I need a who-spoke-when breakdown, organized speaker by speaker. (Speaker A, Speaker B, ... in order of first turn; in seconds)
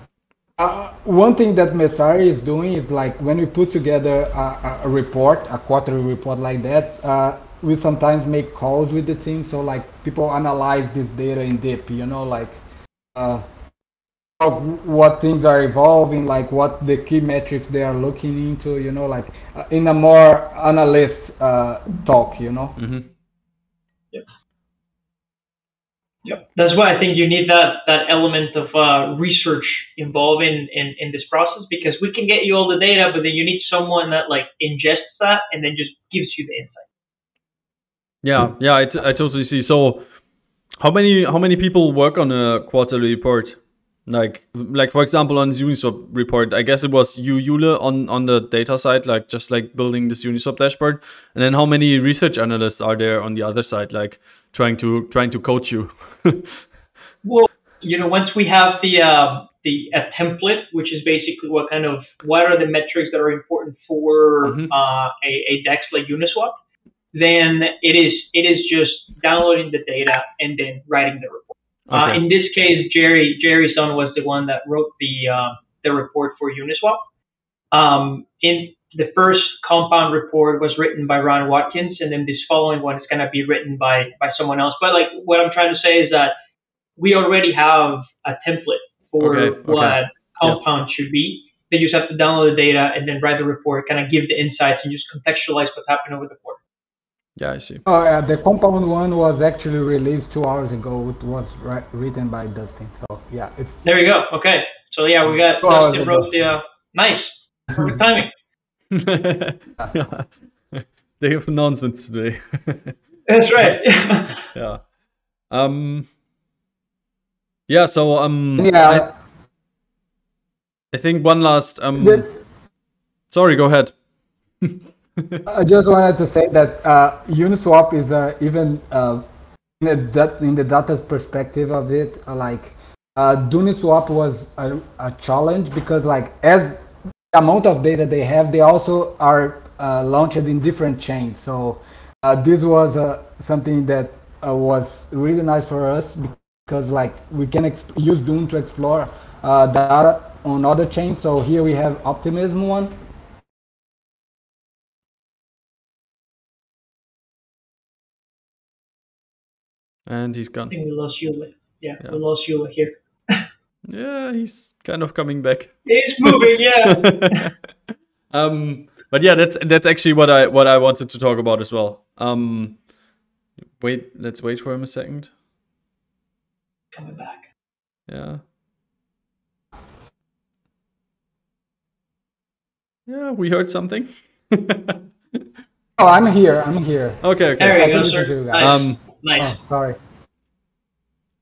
Speaker A: 0.6-12.6, 13.2-13.4, 14.4-22.8, 97.9-103.9, 105.6-106.3, 118.6-119.1, 122.0-122.2, 125.5-129.2, 129.8-136.8, 137.3-152.9, 186.0-188.7, 189.4-190.0
Speaker B: 22.8-23.1, 38.2-40.1, 40.8-56.7, 64.5-64.7, 71.9-72.2, 89.2-90.6, 97.4-97.8, 108.9-113.0, 114.5-114.9, 115.5-116.1, 117.7-119.1, 120.9-122.3, 123.3-124.0, 124.6-125.5, 160.1-160.7, 163.9-167.5, 168.3-172.8, 173.8-175.3, 178.1-178.4, 183.1-185.0, 187.2-187.8, 188.6-189.0
Speaker C: 26.2-36.9, 57.2-66.6, 67.1-77.0, 77.7-86.3, 87.0-96.6, 103.8-108.3, 113.3-114.5, 160.7-163.5, 165.9-167.5, 176.9-177.5, 187.6-189.5